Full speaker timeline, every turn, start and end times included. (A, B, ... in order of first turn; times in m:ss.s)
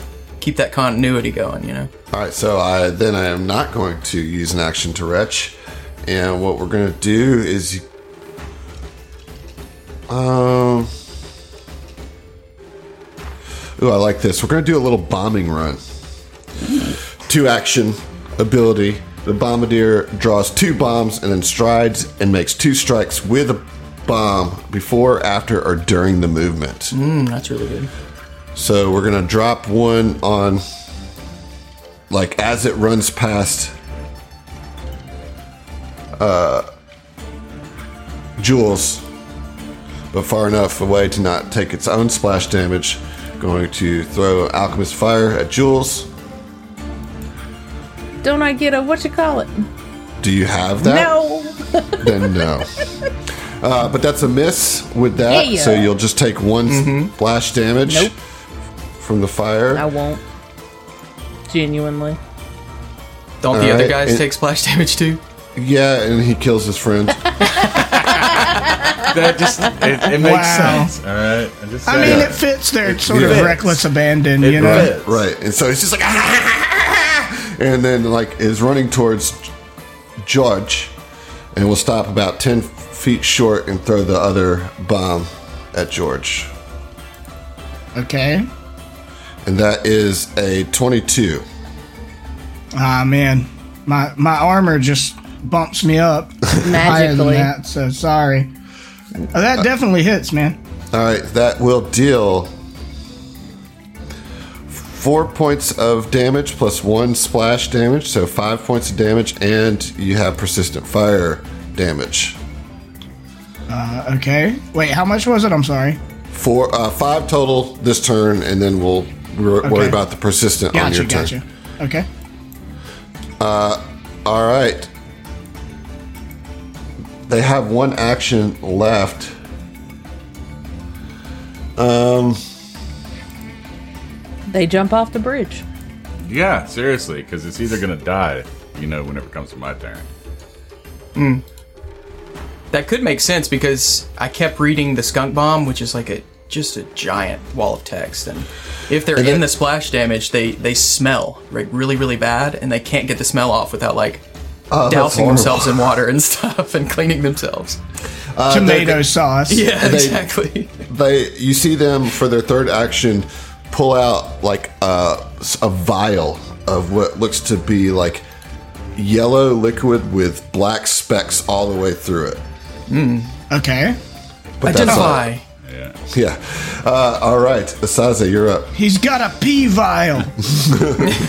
0:00.4-0:01.9 A
0:02.1-0:07.8 B
0:10.1-0:10.9 B
0:13.8-0:15.8 B
0:17.2-0:27.0 B
0:26.9-0:27.9 A
0:28.6-0:30.6 B
0:32.1-0:33.7 B
0:36.2-0:36.7 B
0:38.4-0:39.0 B
0:40.1-0:46.1 B
0:48.2-0:49.7 C
0:50.2-0:51.1 B
0:50.8-0:52.4 C
0:52.0-0:52.7 B
0:53.6-0:58.1 B
0:55.3-0:55.9 C
0:56.7-0:57.1 A
0:57.8-0:58.1 C
0:59.0-0:59.9 B
0:59.7-1:00.2 C
1:01.5-1:02.2 C
1:03.4-1:05.2 A
1:03.5-1:04.3 B
1:05.6-1:07.5 B
1:08.0-1:13.8 D
1:10.1-1:11.0 E
1:11.8-1:14.9 E
1:12.0-1:12.4 B
1:13.0-1:13.6 B
1:14.4-1:15.2 D
1:14.5-1:19.5 B
1:20.2-1:21.0 B
1:21.5-1:26.5 B
1:28.0-1:28.5 E
1:29.4-1:31.4 B
1:32.8-1:38.5 E
1:36.6-1:37.5 C
1:39.3-1:40.6 E
1:40.9-1:42.5 B
1:44.7-1:52.4 B
1:53.7-1:56.0 E
1:56.3-2:01.4 B
1:59.6-2:00.0 E
2:00.7-2:02.1 E
2:03.4-2:04.9 B
2:07.3-2:09.3 B
2:11.8-2:12.4 B
2:14.5-2:15.6 C
2:16.2-2:20.1 D
2:21.2-2:21.4 A
2:22.7-2:34.2 A
2:29.2-2:29.5 B
2:34.7-2:35.9 B
2:34.8-2:37.8 A
2:38.4-2:39.1 B
2:38.5-2:39.7 E
2:39.5-2:40.7 A
2:39.7-2:40.2 B
2:40.9-2:48.2 B
2:49.0-2:52.4 B
2:52.9-2:53.3 A
2:53.5-2:54.0 E
2:54.6-2:55.3 B
2:54.6-2:55.4 A
2:54.8-2:55.1 E
2:55.6-2:56.0 D
2:56.1-2:58.7 B
2:58.8-3:00.4 E
3:00.5-3:01.2 B